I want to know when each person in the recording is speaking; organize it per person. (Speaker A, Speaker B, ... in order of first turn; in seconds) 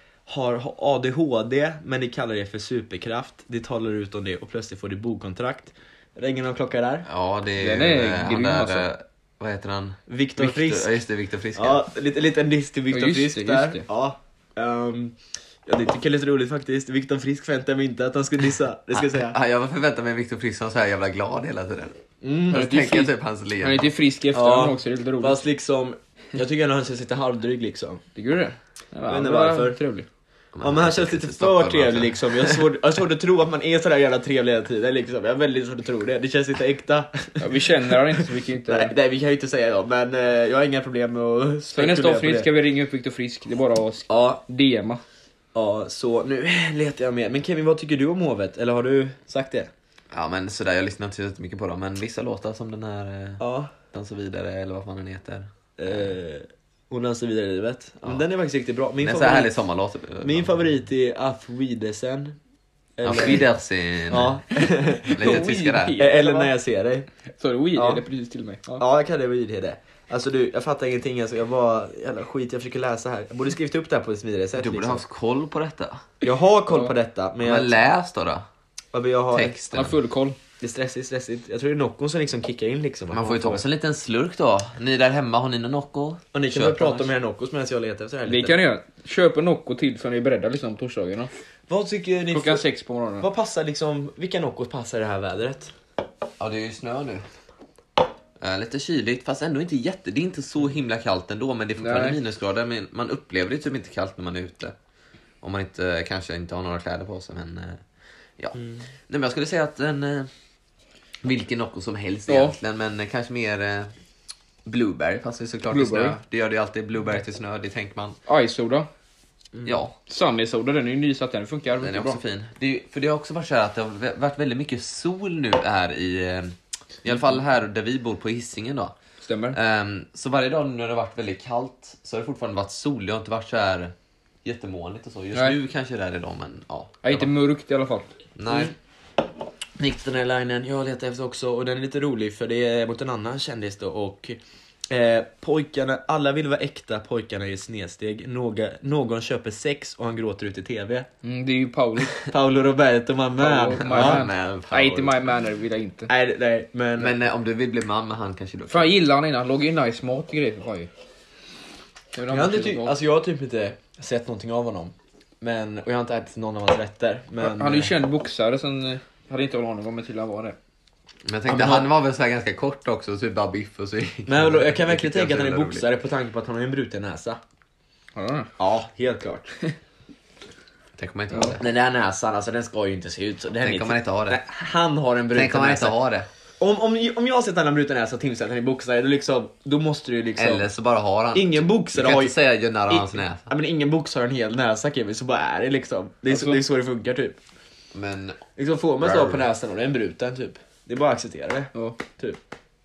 Speaker A: 0.3-7.0, 10.1-11.0, 11.5-19.4, 22.2-22.7, 24.3-28.0, 29.1-29.8, 30.6-42.5, 44.1-44.4, 45.5-49.7, 53.4-53.7, 55.8-59.5, 60.2-62.4, 63.0-63.5, 64.1-65.4, 66.0-67.1, 67.8-68.0, 68.8-75.0, 76.2-77.8, 78.9-79.5, 80.6-83.6, 86.3-88.6, 91.7-92.6, 93.2-95.7, 139.8-144.4, 144.9-151.1, 152.2-154.2, 156.1-157.1, 162.3-167.9, 171.5-171.9, 174.3-177.4, 178.6-179.5, 181.6-185.9, 186.6-190.7, 191.3-192.3, 192.9-197.4, 198.6-202.4
Speaker B: 7.0-11.8, 18.9-22.0, 22.5-23.9, 30.5-32.6, 50.1-56.1, 59.0-60.6, 63.0-66.0, 74.6-76.0, 77.4-78.4, 79.3-80.0, 83.1-87.1, 96.4-97.2, 98.4-104.7, 105.4-107.8, 109.1-110.3, 111.2-113.9, 114.7-118.2, 119.6-119.9, 121.8-128.9, 129.5-137.3, 138.4-138.7, 153.8-155.2, 157.0-158.9, 171.2-175.8, 181.0-181.6, 183.6-184.4, 185.3-186.3, 190.4-193.5, 197.9-198.4, 199.0-199.4
Speaker C: 7.6-8.9, 12.9-13.8, 22.5-25.4, 28.1-30.1, 37.4-38.9, 41.7-45.0, 65.2-66.5, 67.4-68.8, 79.7-80.4, 88.2-91.3, 92.3-93.3, 101.8-102.2, 112.3-112.5, 115.7-116.2, 118.3-118.9, 120.1-122.2, 129.2-129.6, 137.0-138.1, 151.2-152.2, 153.4-156.1, 158.7-160.9, 162.1-162.9, 167.4-170.6, 178.2-178.5, 196.3-196.6, 201.7-202.0